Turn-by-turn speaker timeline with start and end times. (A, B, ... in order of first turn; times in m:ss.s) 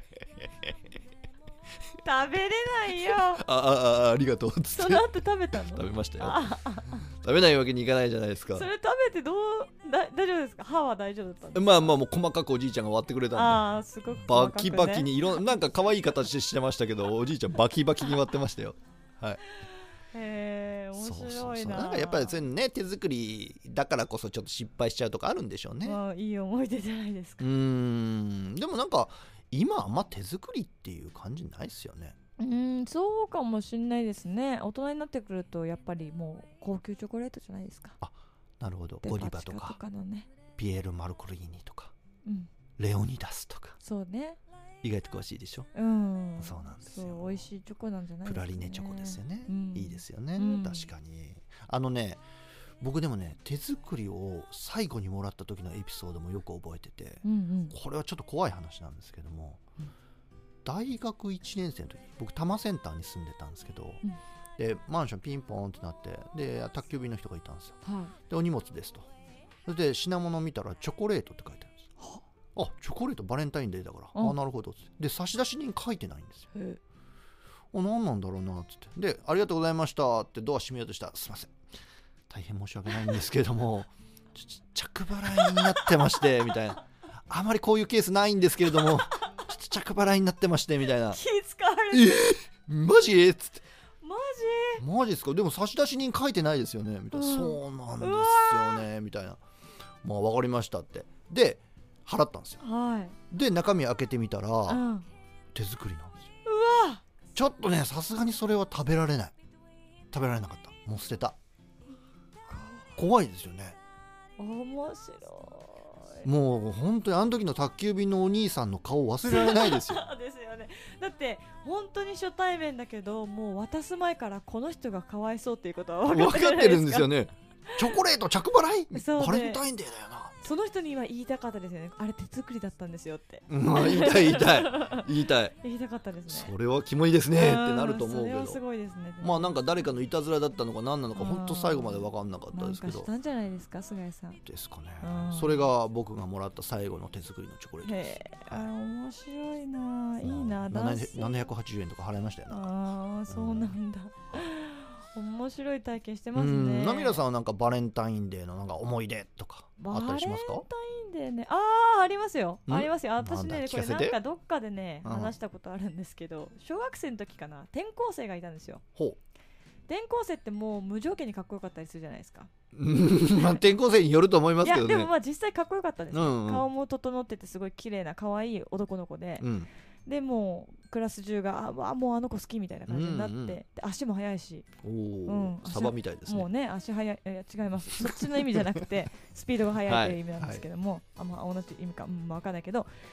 0:02.0-0:03.4 A
0:03.2-0:08.7 B
0:04.7-0:07.0 A
0:08.5-0:11.8 A
0:11.5-0:13.6 B
0:13.3-0:15.1 A
0:14.2-0:19.4 B
0:20.1-0:22.4 A
0:21.0-0:26.0 B
0:25.8-0:27.4 A
0:27.4-0:32.1 B
0:32.4-0:38.0 A
0:38.0-0:39.8 B
0:39.0-0:40.3 A
0:40.6-0:41.9 B
0:42.2-0:42.5 A
0:42.8-0:43.8 B
0:43.8-0:44.4 A
0:44.8-0:45.7 B
0:45.7-0:50.9 A
0:46.4-0:47.5 B
0:48.2-0:52.2 B
0:52.8-0:59.6 B
0:57.2-0:57.8 A
1:00.6-1:04.0 B
1:04.6-1:09.1 B
1:07.8-1:08.1 A
1:09.6-1:11.9 B
1:12.5-1:16.5 B
1:17.7-1:21.5 B
1:22.3-1:31.2 B
1:25.4-1:25.9 A
1:31.1-1:32.3 A
1:31.9-1:33.6 B
1:34.0-1:34.8 A
1:34.8-1:39.4 B
1:37.1-1:38.8 A
1:40.0-1:42.6 B
1:42.6-1:43.2 A
1:43.3-1:44.8 B
1:44.7-1:45.0 A
1:45.5-1:46.2 B
1:46.4-1:47.0 A
1:47.3-1:49.3 B
1:50.1-1:51.4 B
1:52.5-1:52.8 A
1:53.0-1:53.8 B
1:54.4-1:56.3 A
1:56.2-2:00.0 B
1:59.2-2:07.1 A
2:06.1-2:10.4 B
2:08.9-2:09.6 A
2:10.4-2:15.1 A
2:13.5-2:15.5 B
2:15.6-2:16.5 A
2:16.3-2:18.6 B
2:17.3-2:19.6 A
2:19.2-2:23.1 B
2:21.2-2:24.4 A
2:24.4-2:28.7 B
2:25.0-2:25.7 A
2:27.8-2:31.4 A
2:30.2-2:32.7 B
2:32.5-2:37.2 A
2:33.3-2:33.7 B
2:36.3-2:40.6 B
2:39.8-2:48.8 A
2:42.7-2:44.2 B
2:45.0-2:45.3 B
2:49.9-2:52.5 A
2:52.7-2:55.1 B
2:54.6-2:59.5 A
2:56.1-2:56.7 B
2:59.4-2:59.7 B
3:00.0-3:04.7 A
3:02.9-3:03.6 B
3:04.8-3:06.5 B
3:05.3-3:12.9 A
3:07.9-3:08.8 B
3:09.8-3:10.6 B